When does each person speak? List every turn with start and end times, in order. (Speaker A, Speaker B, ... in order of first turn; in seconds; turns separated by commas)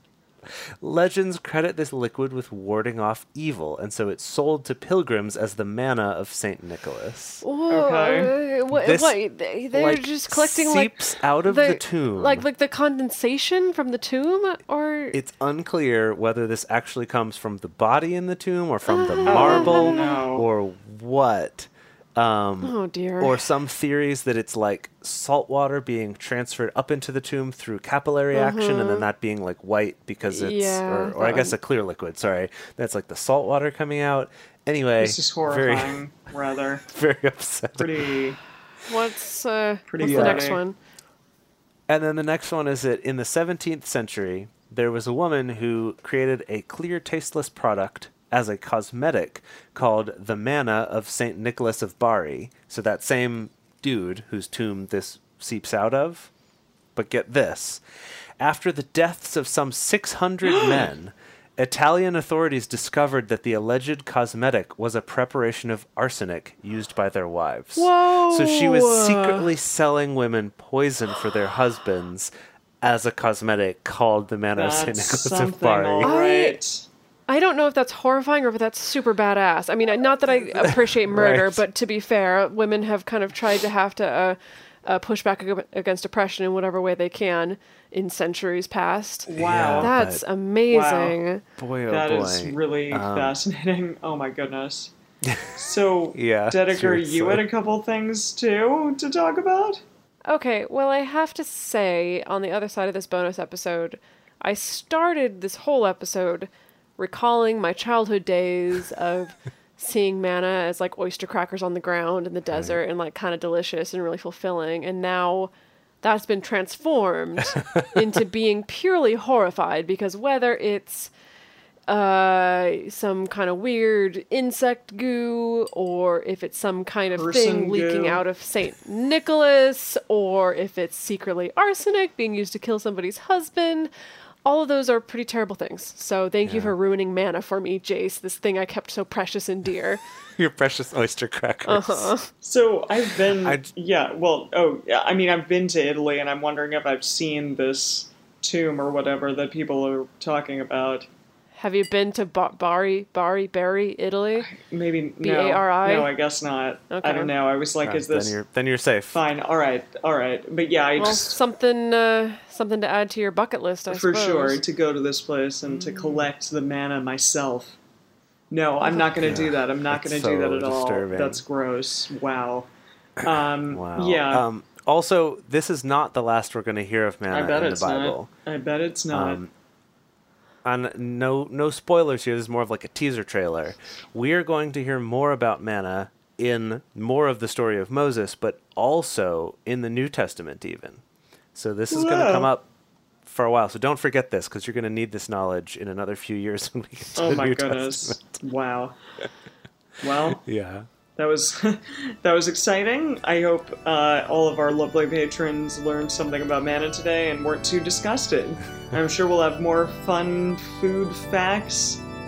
Speaker A: 0.8-7.5, Speaker B: 7.4-15.2, Speaker C: 7.7-8.4, Speaker A: 8.7-9.2, Speaker A: 9.7-12.5, Speaker A: 15.1-36.0, Speaker B: 18.9-20.2, Speaker C: 19.3-20.5, Speaker B: 22.6-23.4, Speaker B: 28.3-29.1, Speaker B: 30.3-31.6, Speaker C: 35.0-36.9, Speaker A: 36.9-37.9, Speaker C: 37.8-38.4, Speaker B: 38.9-40.8, Speaker C: 39.9-40.6, Speaker A: 40.0-40.5, Speaker A: 41.9-56.3, Speaker A: 57.0-57.8, Speaker A: 58.4-76.1, Speaker B: 67.8-69.5, Speaker C: 74.5-76.9, Speaker B: 76.0-76.6, Speaker B: 77.3-91.4, Speaker A: 81.1-81.6, Speaker C: 89.3-89.9, Speaker A: 89.3-90.2, Speaker C: 90.7-91.2, Speaker A: 91.6-93.4, Speaker C: 91.9-94.9, Speaker A: 95.2-95.5, Speaker C: 95.5-99.8, Speaker A: 96.1-97.5, Speaker B: 100.3-115.5, Speaker A: 112.5-112.8, Speaker B: 116.0-121.1, Speaker B: 121.9-133.9, Speaker C: 127.2-128.2, Speaker B: 134.4-140.0, Speaker A: 136.4-136.8, Speaker A: 140.4-142.1, Speaker B: 141.7-142.3, Speaker C: 142.4-151.1, Speaker A: 143.4-143.7, Speaker B: 151.6-154.5, Speaker C: 154.4-158.4, Speaker B: 155.2-156.1, Speaker B: 156.9-157.3, Speaker A: 157.8-159.2, Speaker C: 159.1-161.4, Speaker B: 161.0-164.6, Speaker C: 163.9-167.8, Speaker C: 168.5-172.7, Speaker A: 169.2-171.4, Speaker C: 173.2-174.4, Speaker A: 173.2-178.3, Speaker C: 177.3-179.4, Speaker A: 179.1-179.5, Speaker A: 180.7-191.0, Speaker A: 191.6-192.7, Speaker C: 191.9-192.5, Speaker A: 193.2-198.4, Speaker C: 197.2-199.0, Speaker C: 200.0-200.4, Speaker A: 200.4-200.9, Speaker C: 201.2-212.0